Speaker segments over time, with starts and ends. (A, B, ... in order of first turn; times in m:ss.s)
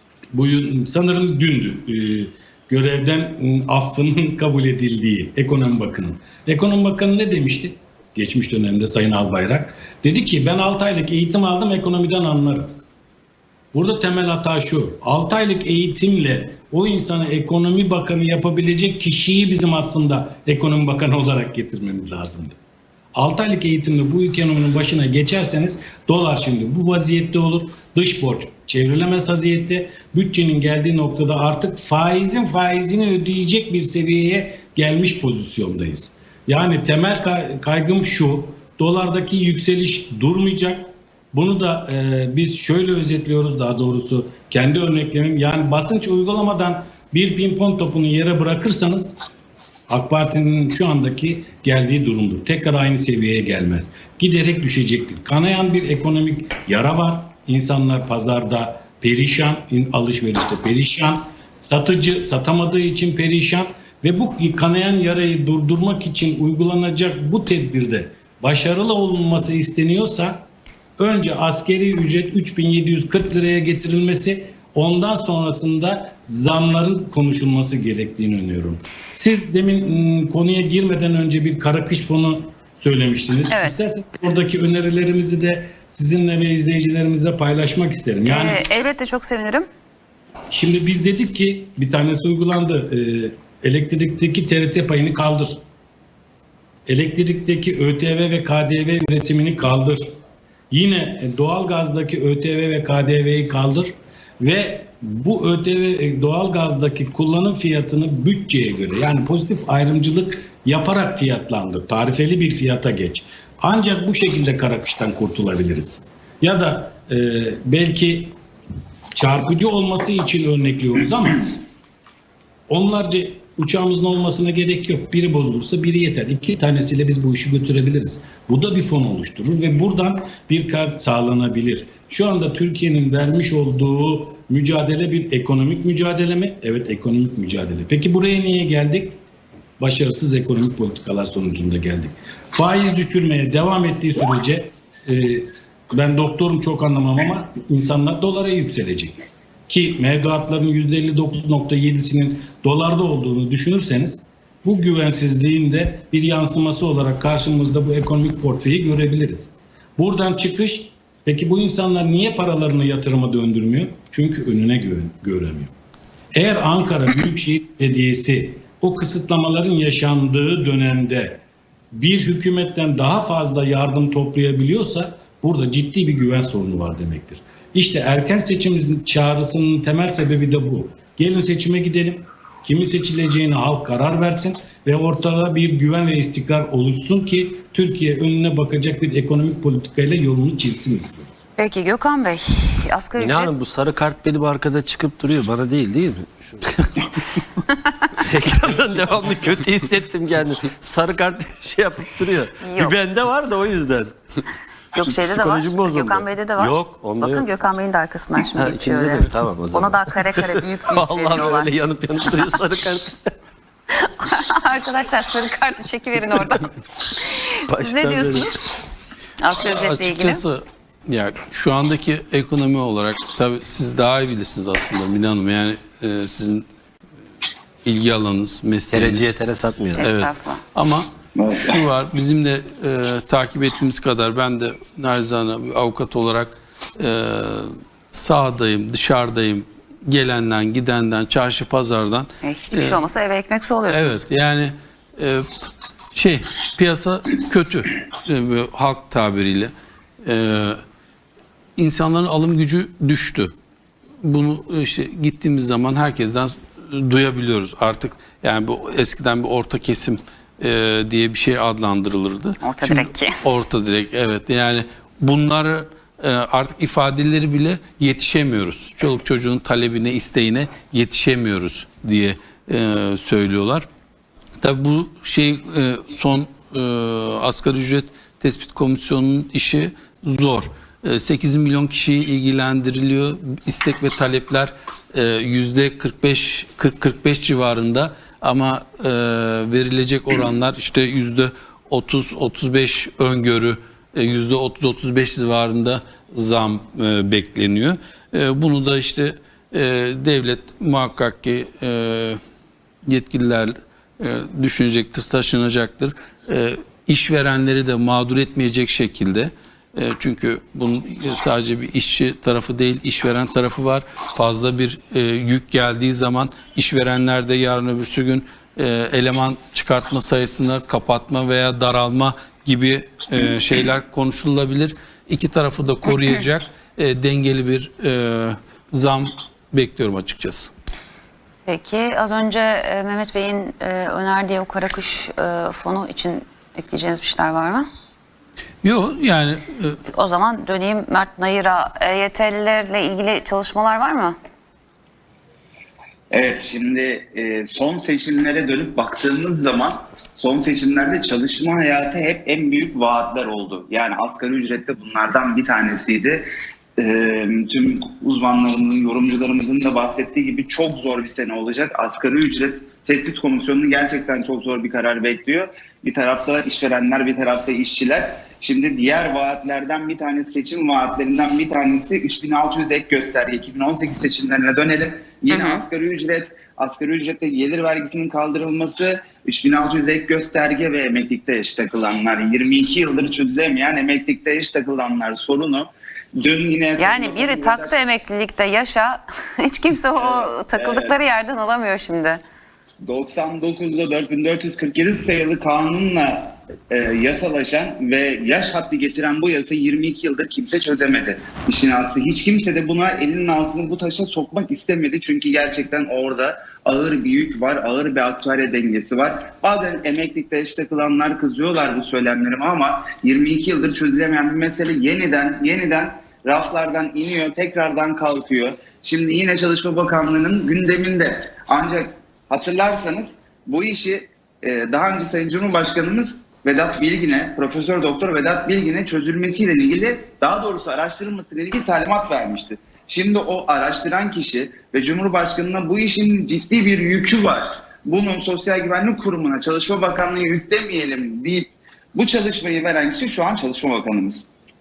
0:00.3-0:12.8 A
0:13.7-0:22.6 A
0:23.1-0:49.2 A
0:49.9-1:10.5 A
1:11.0-1:28.6 A
1:23.5-1:23.8 B
1:28.2-1:29.7 B
1:30.5-1:35.6 A
1:36.9-1:40.2 A
1:40.7-1:58.4 A
1:59.1-2:01.6 A
2:02.7-2:19.2 A
2:19.8-2:45.7 A
2:46.3-3:11.3 A
3:11.6-3:13.5 B
3:13.2-3:16.9 C
3:18.2-3:24.1 C
3:22.6-3:23.0 B
3:24.9-3:31.8 B
3:25.2-3:27.5 C
3:28.5-3:33.2 C
3:34.0-3:38.7 B
3:37.7-3:38.6 C
3:39.4-3:40.4 B
3:39.6-3:46.7 D
3:47.8-3:49.4 D
3:48.9-3:50.1 C
3:50.0-3:50.6 B
3:50.0-4:03.0 D
3:51.4-3:51.8 E
4:02.4-4:04.2 B
4:03.9-4:05.6 D
4:06.1-4:09.7 D
4:10.2-4:10.8 D
4:11.8-4:13.5 D
4:14.2-4:33.9 D
4:22.6-4:23.4 B
4:34.6-5:02.4 D
5:03.0-5:30.7 D
5:31.7-5:37.9 B
5:38.8-5:40.0 D
5:40.1-5:44.4 B
5:46.3-6:27.9 E
6:15.5-6:15.8 B
6:27.0-6:32.4 B
6:30.2-6:31.1 E
6:33.0-7:24.5 E